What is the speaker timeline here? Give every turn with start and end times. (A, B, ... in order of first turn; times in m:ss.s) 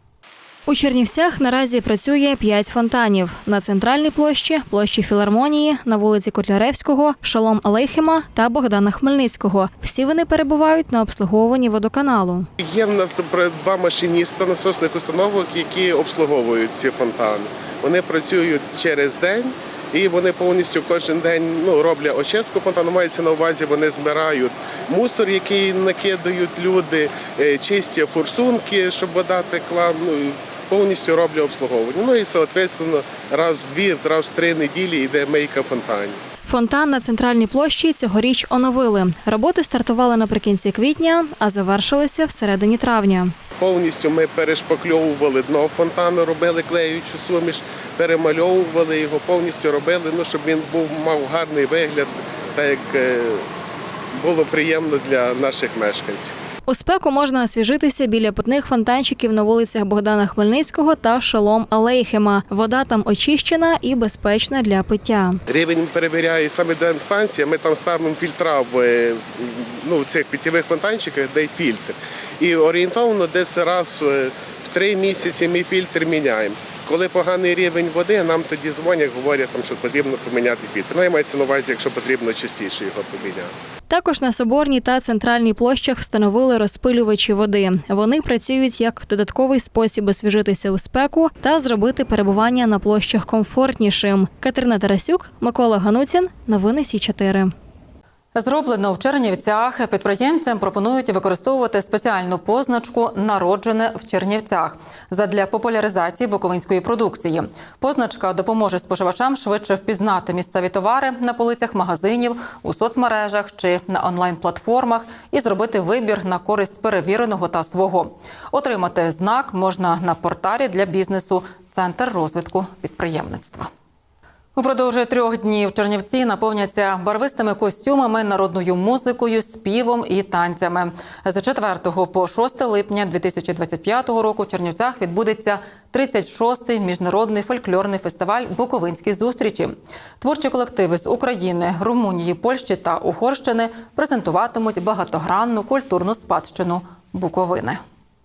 0:00.7-0:12.4 A
0:12.6-0:36.2 B
0:36.4-0:43.3 A
0:43.6-0:53.4 B
0:54.2-0:56.3 B
0:56.7-1:05.4 A
1:05.5-1:23.5 B
1:23.9-1:37.5 A
1:38.3-2:03.7 C
2:04.6-2:27.8 C